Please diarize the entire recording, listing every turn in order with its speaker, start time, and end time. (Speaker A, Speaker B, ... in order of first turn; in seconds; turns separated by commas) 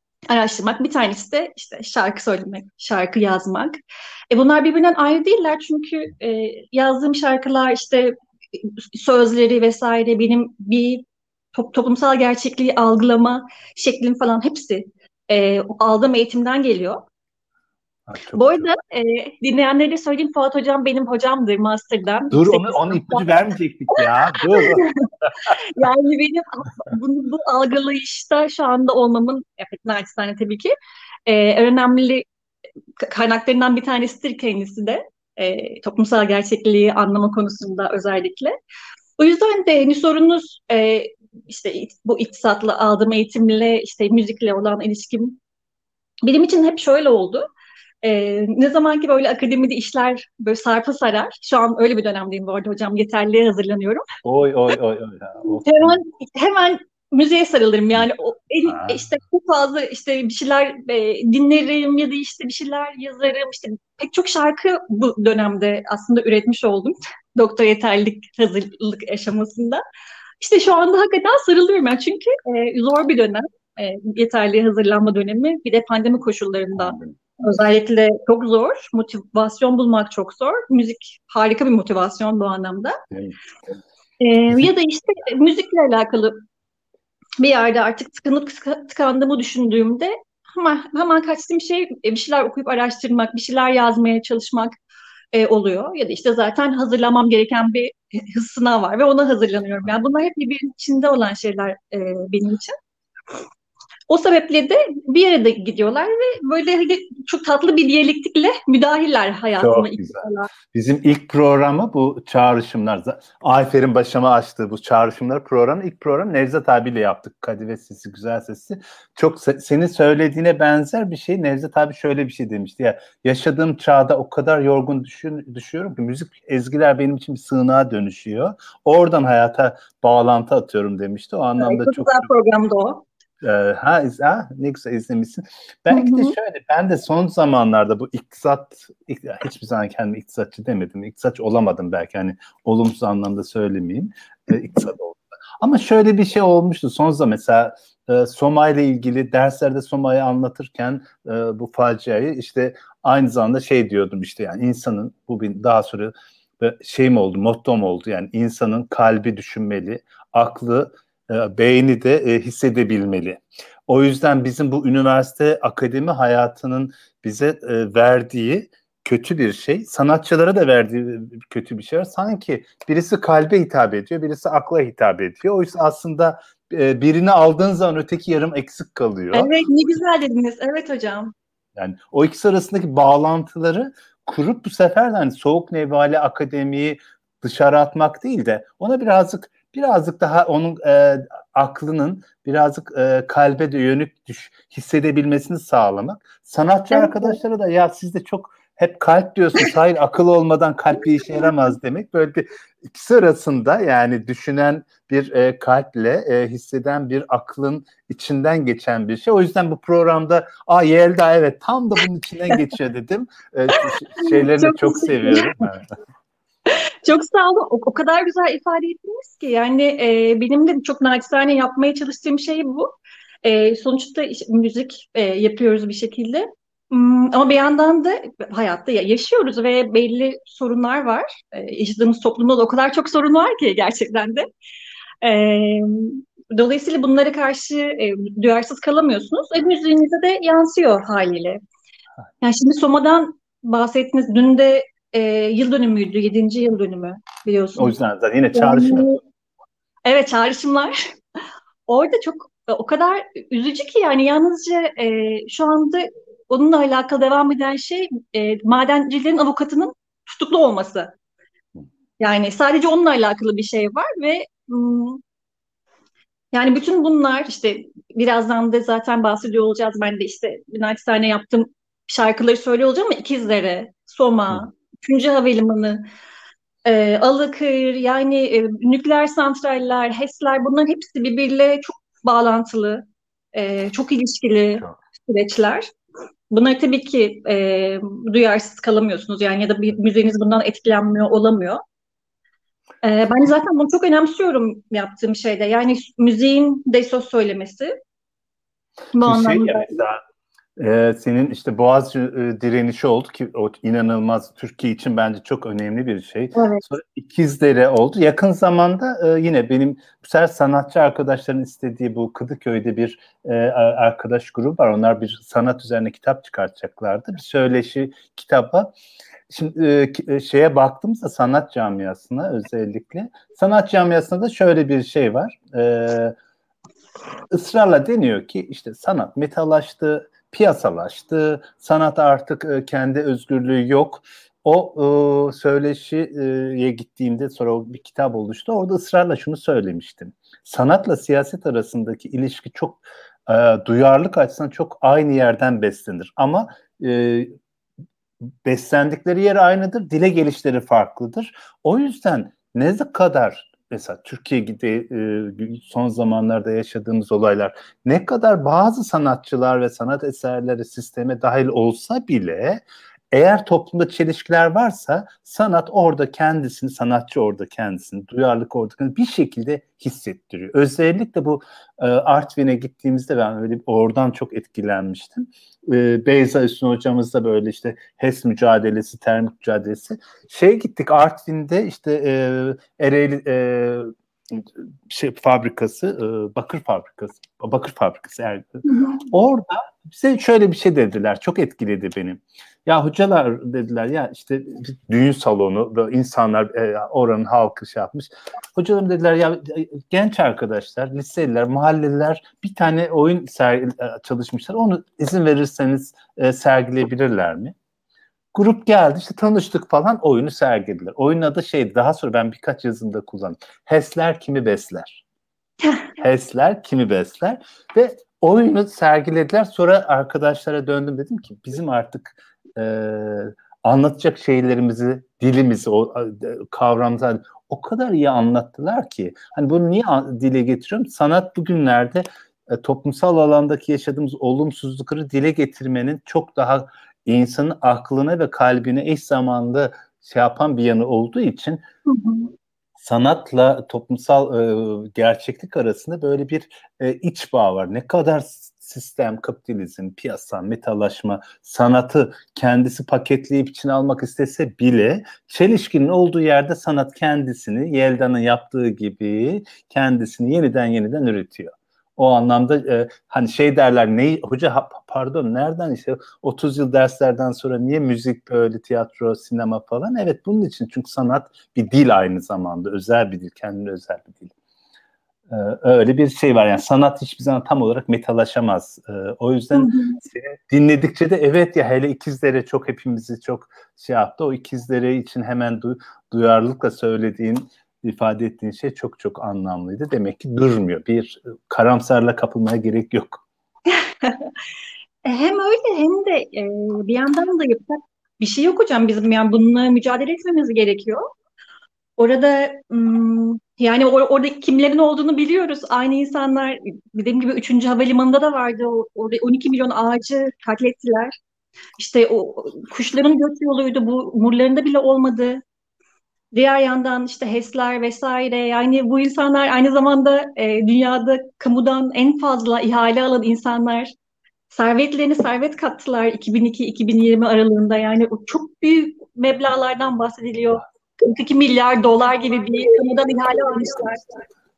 Speaker A: 0.3-3.8, Speaker A: 4.3-17.1, Speaker B: 18.1-18.7, Speaker A: 18.3-23.3, Speaker B: 22.3-25.5, Speaker A: 24.0-30.7, Speaker A: 31.2-32.2, Speaker A: 33.0-38.5, Speaker A: 39.2-45.4, Speaker A: 46.2-47.5, Speaker A: 48.0-54.0, Speaker B: 54.2-56.0, Speaker A: 55.4-69.8, Speaker B: 58.6-59.0, Speaker A: 70.4-83.0, Speaker B: 76.8-77.2, Speaker B: 83.1-83.3, Speaker A: 84.2-86.4, Speaker A: 87.4-94.7, Speaker A: 95.3-102.7, Speaker A: 104.1-110.5, Speaker B: 109.6-132.3, Speaker A: 131.6-133.0, Speaker B: 133.4-179.5, Speaker A: 135.9-136.3, Speaker A: 179.3-181.3, Speaker B: 181.8-215.9, Speaker A: 196.9-197.3, Speaker A: 213.7-215.5, Speaker A: 216.7-222.9, Speaker A: 223.4-234.4, Speaker A: 235.2-241.6, Speaker A: 242.4-247.9, Speaker B: 247.8-249.1, Speaker A: 248.5-249.2, Speaker A: 250.0-250.9, Speaker A: 251.9-261.1, Speaker A: 262.2-265.2, Speaker A: 266.5-276.0, Speaker A: 276.8-283.0, Speaker A: 283.5-285.9, Speaker A: 286.5-291.8, Speaker A: 293.0-297.9, Speaker A: 299.1-299.9, Speaker B: 299.2-300.2, Speaker B: 300.8-318.9, Speaker A: 306.5-306.8, Speaker B: 319.5-326.3, Speaker B: 327.5-347.5, Speaker B: 348.6-407.7, Speaker A: 388.9-389.2, Speaker B: 408.5-415.2, Speaker B: 416.2-441.8, Speaker A: 442.1-442.5, Speaker B: 443.0-474.5, Speaker B: 475.5-493.4, Speaker A: 479.7-480.2, Speaker A: 493.9-494.5, Speaker A: 495.2-501.2, Speaker A: 502.2-511.3, Speaker A: 512.0-515.6, Speaker A: 516.5-524.1, Speaker A: 524.7-534.4